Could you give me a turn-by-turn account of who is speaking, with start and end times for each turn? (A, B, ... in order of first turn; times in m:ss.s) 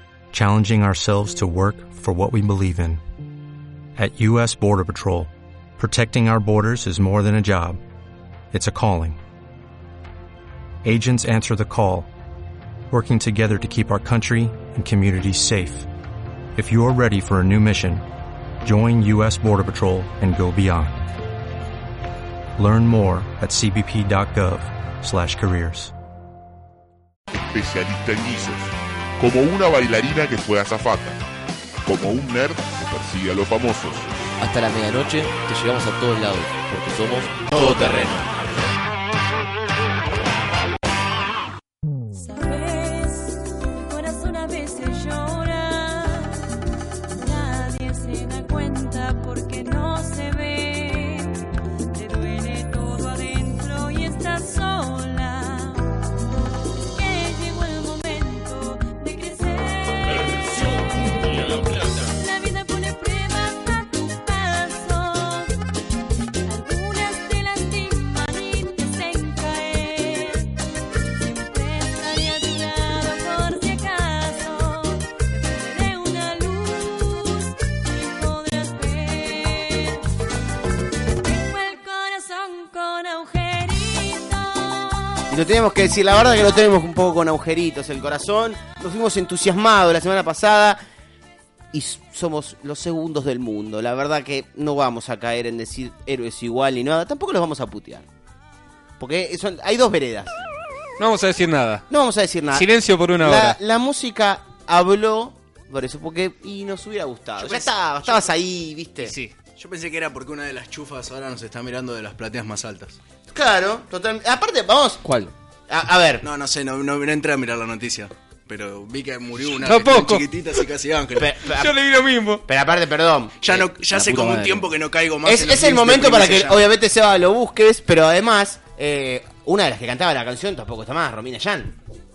0:00.3-0:03.0 A
0:04.0-0:07.8 A
0:08.5-0:09.2 A
0:10.8-0:12.1 A
0:12.9-0:15.9 A
0:16.6-0:18.0 A
0:18.6-0:21.1 A
0:22.6-0:25.9 A
0:27.5-0:31.2 B
0:31.8-0:34.0 B
0:34.4-0:38.3 C
0:42.1-0:46.4 D
0:47.1-0:51.3 D
0:51.9-0:55.9 D
0:56.9-1:05.5 D
1:06.4-1:20.0 D
1:21.2-1:25.2 D
1:25.3-1:30.8 E
1:31.7-1:38.0 E
1:39.0-1:40.4 E
1:41.0-1:41.8 F
1:41.9-1:42.7 E
1:42.5-1:43.6 F
1:43.2-1:49.1 E
1:47.4-1:47.7 G
1:49.0-1:49.3 F
1:49.6-1:53.0 G
1:53.3-1:56.2 E
1:56.2-2:01.3 G
1:59.6-2:00.2 F
2:01.2-2:01.8 E
2:01.4-2:02.4 F
2:02.4-2:03.6 E
2:03.4-2:06.6 G
2:03.6-2:04.7 C
2:05.2-2:11.8 E